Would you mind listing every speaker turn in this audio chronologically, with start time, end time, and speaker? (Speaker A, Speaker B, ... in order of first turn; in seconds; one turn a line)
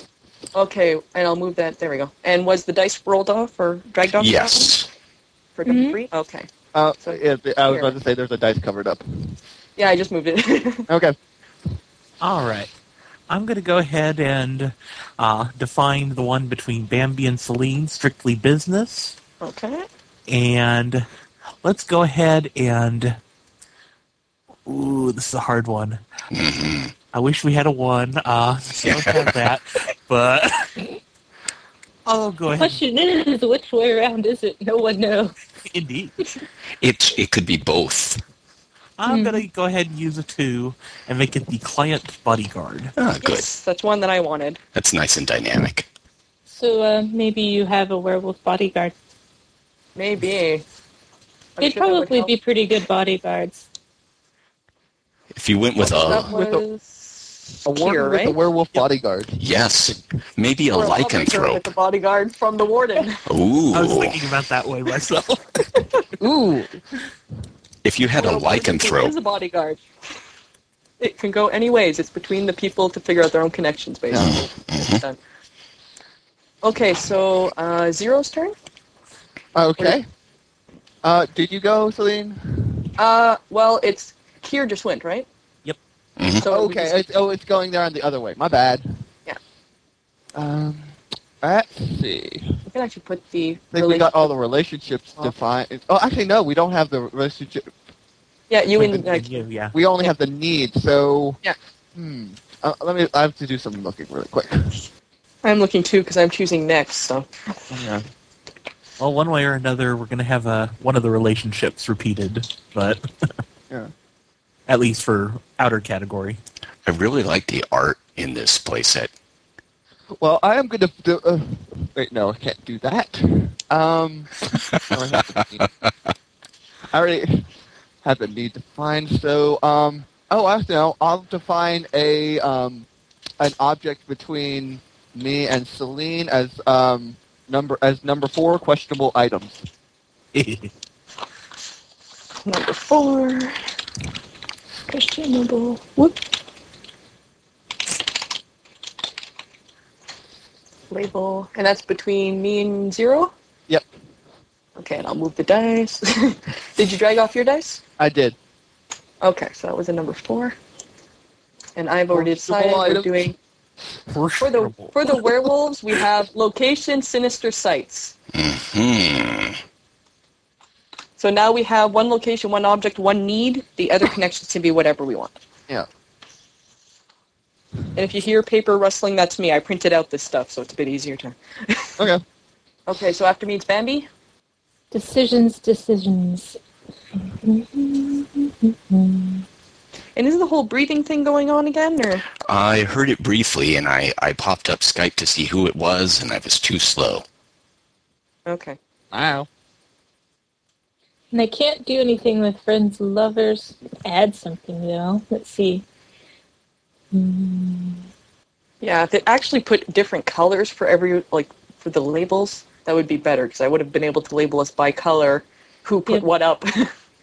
Speaker A: 0.5-4.8
Speaker B: 4.2-4.9
Speaker A: 5.5-6.5
Speaker C: 5.7-6.0
Speaker D: 6.7-9.3
Speaker A: 7.0-8.0
Speaker A: 9.8-10.9
Speaker D: 10.9-11.2
Speaker E: 12.2-12.7
Speaker E: 13.3-19.1
Speaker A: 19.4-19.9
Speaker E: 20.3-21.1
Speaker E: 21.6-23.2
Speaker E: 24.6-26.0
Speaker B: 26.3-26.9
Speaker E: 27.1-30.8
Speaker B: 28.8-29.4
Speaker E: 32.0-32.8
Speaker C: 32.5-35.3
Speaker E: 35.7-36.1
Speaker B: 36.8-38.2
Speaker E: 39.0-42.9
Speaker C: 39.1-39.5
Speaker B: 43.0-43.5
Speaker A: 43.2-44.6
Speaker B: 44.7-45.9
Speaker C: 46.5-48.9
Speaker A: 50.0-50.6
Speaker A: 51.6-52.3
Speaker C: 51.6-53.6
Speaker B: 55.3-56.3
Speaker A: 55.8-58.4
Speaker D: 56.0-56.6
Speaker D: 57.6-59.4
Speaker B: 59.4-61.6
Speaker A: 60.7-63.2
Speaker B: 63.3-64.2
Speaker E: 63.7-65.7
Speaker A: 65.8-66.0
Speaker D: 66.2-66.8
Speaker B: 67.8-69.1
Speaker A: 68.1-69.8
Speaker A: 71.0-75.2
Speaker D: 74.1-74.3
Speaker B: 74.2-75.0
Speaker A: 76.6-78.5
Speaker D: 79.5-80.0
Speaker D: 81.0-82.9
Speaker A: 83.0-85.3
Speaker B: 86.2-86.5
Speaker A: 86.4-87.0
Speaker D: 86.4-89.0
Speaker D: 90.3-92.6
Speaker A: 92.7-94.3
Speaker D: 93.7-97.7
Speaker A: 98.5-99.3
Speaker E: 98.8-99.8
Speaker D: 99.7-101.4
Speaker D: 101.9-104.8
Speaker A: 105.4-107.3
Speaker D: 107.7-108.0
Speaker E: 109.0-113.3
Speaker E: 114.7-116.4
Speaker B: 116.8-119.1
Speaker D: 120.2-124.3
Speaker D: 124.9-125.7
Speaker D: 126.9-127.5
Speaker D: 128.0-132.9
Speaker D: 133.4-139.6
Speaker E: 140.3-140.7
Speaker A: 142.4-143.6
Speaker A: 144.9-146.2
Speaker A: 150.9-153.3
Speaker A: 154.8-157.8
Speaker D: 158.0-158.3
Speaker A: 159.2-160.5
Speaker A: 161.8-163.3
Speaker D: 162.1-163.3
Speaker E: 164.1-165.2
Speaker A: 164.4-168.1
Speaker B: 168.3-169.6
Speaker A: 171.2-175.3
Speaker A: 177.9-182.0
Speaker D: 182.0-182.2
Speaker A: 182.9-184.1
Speaker C: 184.9-186.6
Speaker C: 187.2-189.4
Speaker A: 190.2-192.2
Speaker B: 192.4-197.2
Speaker A: 198.4-198.8
Speaker D: 199.1-199.5
Speaker C: 201.3-205.8
Speaker C: 207.1-208.1
Speaker A: 208.8-216.9